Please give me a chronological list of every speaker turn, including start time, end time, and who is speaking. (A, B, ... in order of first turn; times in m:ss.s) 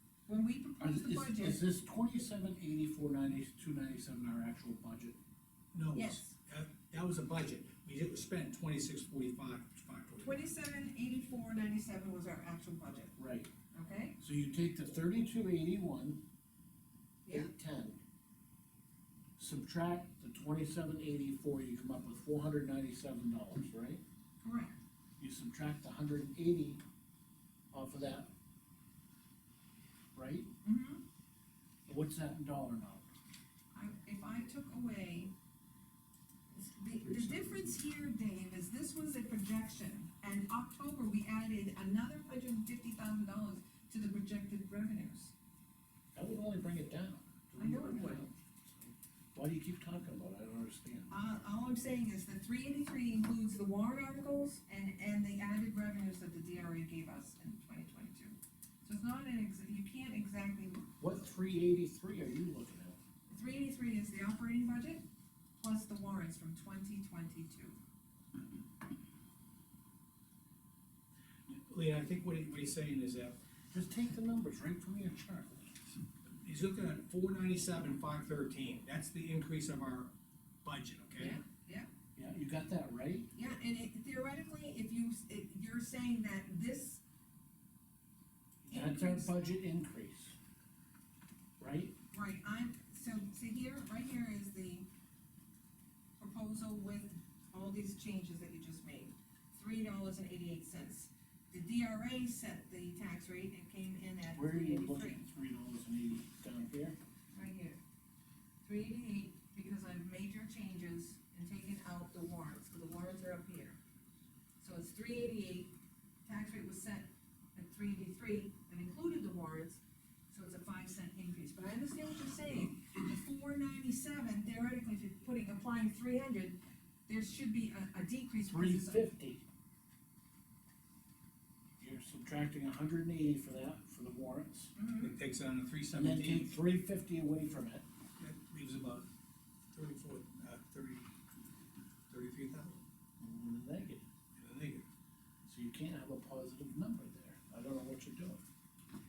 0:00.3-0:01.6 A
0:00.8-0:05.2 B
0:05.7-0:10.4 C
0:05.9-0:06.3 A
0:10.2-0:13.1 A
0:13.2-0:13.5 B
0:13.7-0:14.2 A
0:14.2-0:16.2 B
0:17.2-0:17.5 A
0:17.3-0:18.0 B
0:19.4-0:24.0 B
0:24.4-0:24.8 A
0:25.2-0:26.8 B
0:27.7-0:28.3 B
0:30.1-0:30.5 B
0:30.6-0:31.0 A
0:31.9-0:33.1 B
0:33.7-0:35.3 A
0:36.5-0:45.3 A
0:37.0-0:37.7 B
0:46.1-0:51.1 B
0:47.6-0:48.3 A
0:51.1-1:00.9 A
1:01.0-1:03.0 B
1:03.3-1:05.0 A
1:05.6-1:07.8 A
1:11.5-1:13.4 C
1:13.7-1:15.8 B
1:16.4-1:20.1 C
1:20.6-1:21.4 C
1:21.2-1:21.9 A
1:22.2-1:23.3 B
1:23.3-1:27.0 A
1:28.6-1:30.4 B
1:28.7-1:29.3 A
1:31.6-1:32.0 B
1:32.1-1:34.9 A
1:36.2-1:45.2 A
1:44.4-1:47.0 B
1:47.3-1:47.8 A
1:48.6-1:53.8 A
1:54.6-1:55.7 A
1:56.2-2:09.0 A
2:08.5-2:09.4 B
2:11.8-2:14.7 B
2:14.8-2:15.1 A
2:15.0-2:16.6 C
2:15.9-2:17.8 B
2:18.2-2:19.1 C
2:19.7-2:21.1 C
2:22.1-2:22.8 C
2:23.2-2:24.0 B
2:24.4-2:24.8 C
2:25.4-2:28.4 B